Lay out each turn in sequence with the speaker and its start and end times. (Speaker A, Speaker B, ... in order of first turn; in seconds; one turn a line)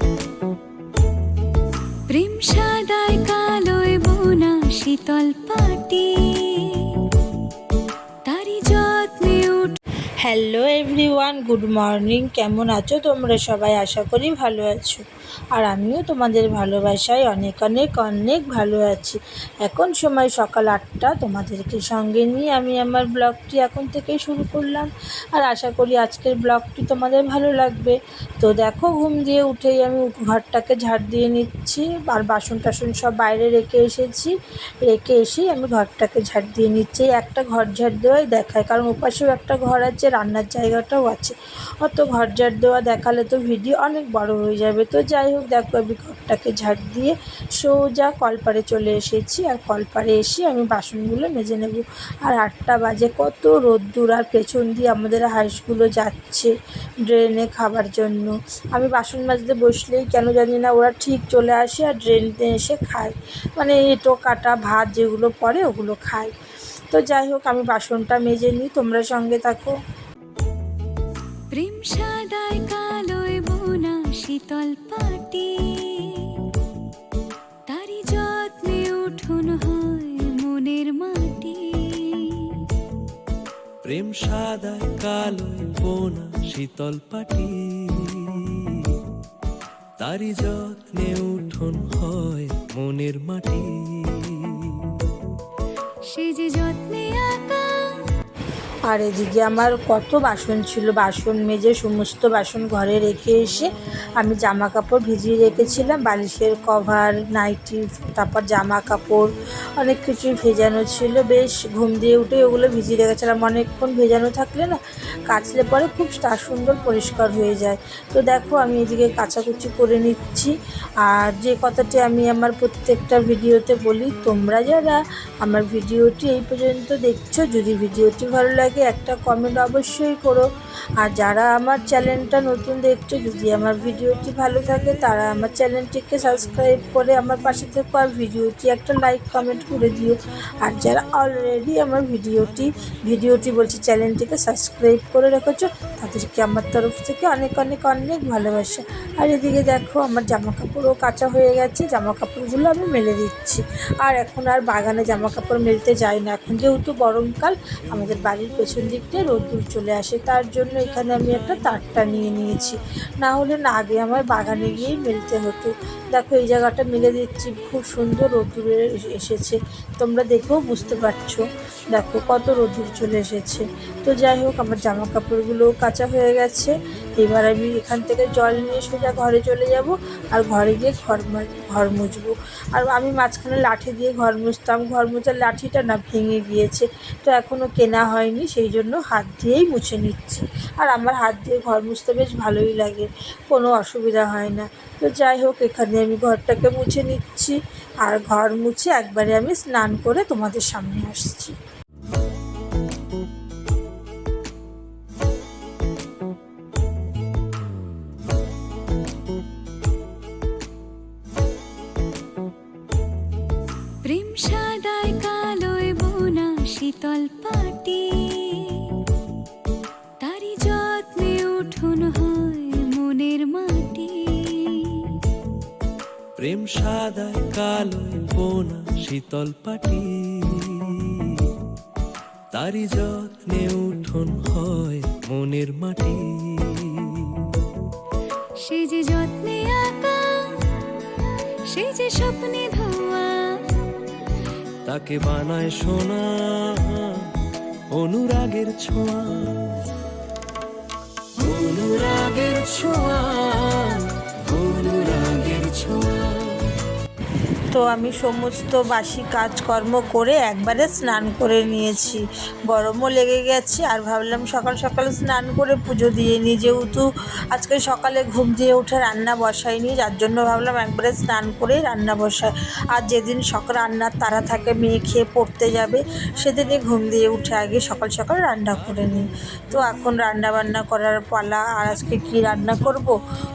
Speaker A: 2.1-7.1
Speaker A: 8.2-9.8
Speaker B: 10.2-34.3
Speaker B: 34.9-56.5
Speaker B: 57.1-66.3
Speaker B: 66.9-69.8
Speaker A: 71.5-76.5
Speaker A: 77.7-82.6
Speaker C: 83.9-89.0
Speaker C: 90.0-95.0
Speaker A: 96.1-98.0
Speaker B: 98.9-130.5
Speaker B: 131.0-201.5
Speaker A: 214.0-219.0
Speaker A: 220.2-225.2
Speaker C: 226.4-231.5
Speaker C: 232.5-237.5
Speaker A: 238.6-240.6
Speaker A: 241.7-243.7
Speaker C: 244.8-247.3
Speaker C: 247.9-249.7
Speaker C: 251.4-256.7
Speaker B: 257.7-283.1